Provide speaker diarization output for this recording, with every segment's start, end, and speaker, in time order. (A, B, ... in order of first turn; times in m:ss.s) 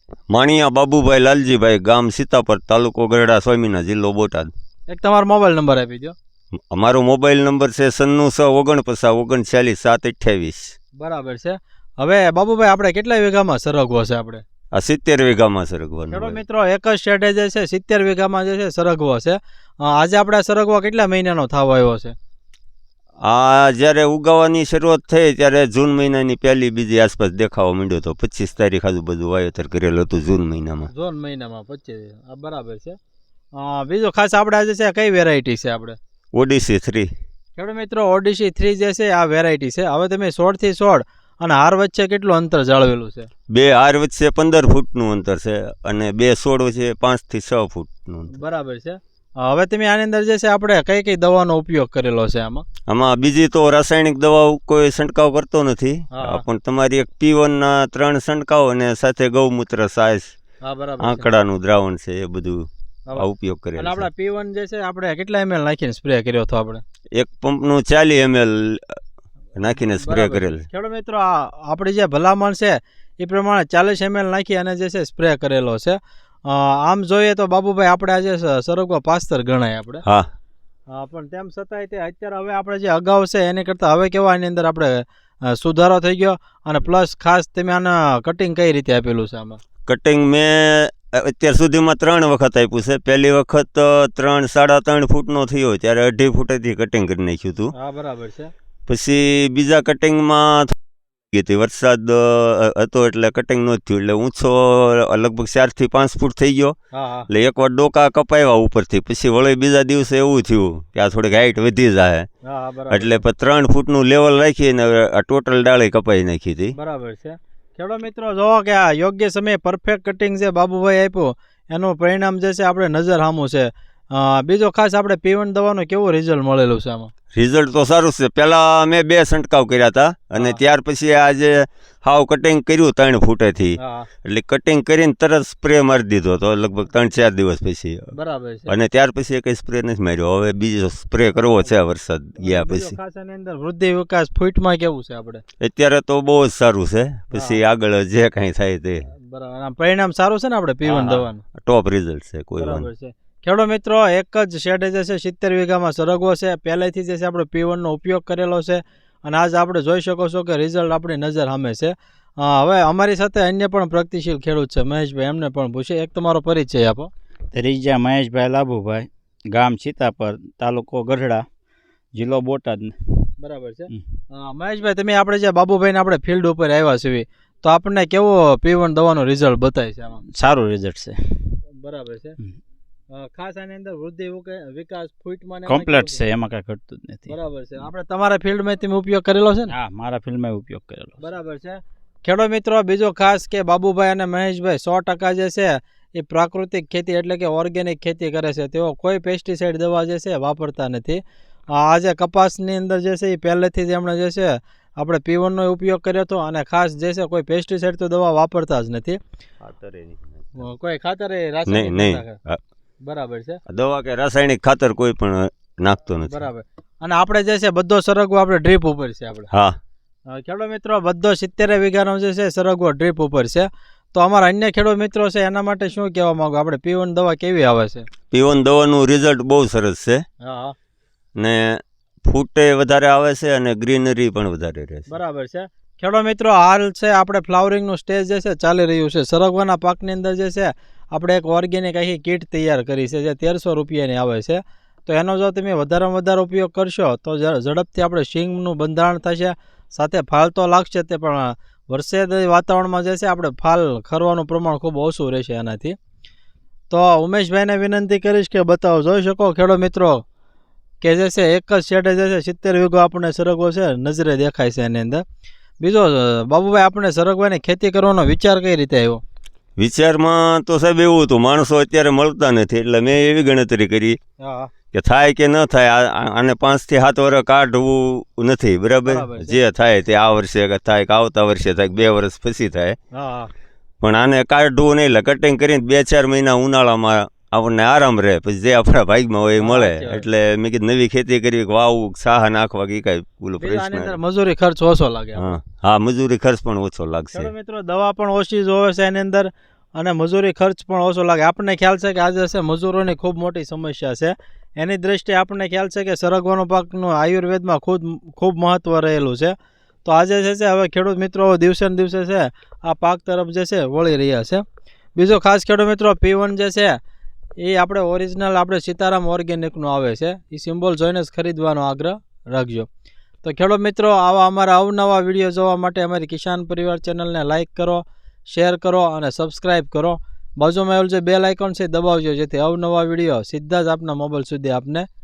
0:00.3-0:04.5 A
0:04.9-0:06.2 B
0:06.7-0:10.7 A
0:11.0-0:14.4 B
0:14.7-0:16.4 A
0:16.1-0:22.2 B
0:23.2-0:30.9 A
0:30.9-0:33.0 B
0:33.6-0:36.0 B
0:36.3-0:37.1 A
0:37.6-0:43.3 B
0:43.5-0:48.4 A
0:48.3-0:52.6 B
0:52.9-1:00.3 A
0:56.1-0:56.4 B
1:00.6-1:01.3 B
1:01.0-1:04.1 A
1:03.1-1:06.8 B
1:07.2-1:09.0 A
1:09.6-1:10.7 A
1:10.0-1:20.0 B
1:20.9-1:29.6 B
1:29.9-1:37.7 A
1:37.7-1:38.5 B
1:38.9-1:40.8 A
1:41.3-1:46.8 A
1:46.9-1:47.3 B
1:47.3-1:52.3 A
1:52.4-1:53.2 B
1:52.9-1:56.8 A
1:56.8-2:07.1 B
2:07.3-2:18.1 A
2:13.8-2:14.1 B
2:18.1-2:18.7 B
2:18.7-2:23.0 A
2:22.4-2:25.4 B
2:25.6-2:29.1 A
2:27.3-2:27.6 B
2:29.1-2:31.4 B
2:30.9-2:32.9 A
2:32.6-2:47.1 B
2:47.5-2:51.5 C
2:52.2-2:53.0 C
2:53.4-3:00.2 B
3:00.3-3:01.2 C
3:01.8-3:02.4 B
3:03.1-3:06.2 B
3:05.7-3:07.3 C
3:07.3-3:09.7 B
3:09.7-3:11.2 C
3:11.2-3:29.2 B
3:29.6-3:30.6 A
3:30.6-3:32.4 B
3:31.7-3:32.6 A
3:33.0-3:33.6 B
3:33.7-3:36.5 A
3:36.3-3:39.5 B
3:39.5-3:39.8 A
3:40.3-3:48.1 B
3:48.3-3:50.2 A
3:50.4-3:50.8 B
3:51.4-3:55.2 A
3:55.1-4:16.0 B
4:16.9-4:20.2 B
4:21.0-4:25.2 B
4:25.8-4:29.2 B
4:29.8-4:34.2 A
4:34.4-4:34.7 B
4:34.9-4:43.0 A
4:39.1-4:39.6 B
4:43.1-4:43.5 B
4:44.0-4:54.2 A
4:49.6-4:50.2 B
4:53.6-4:55.6 B
4:55.4-4:57.5 A
4:57.3-5:14.6 B
5:15.2-5:17.0 B
5:17.6-5:22.9 B
5:23.4-5:35.1 B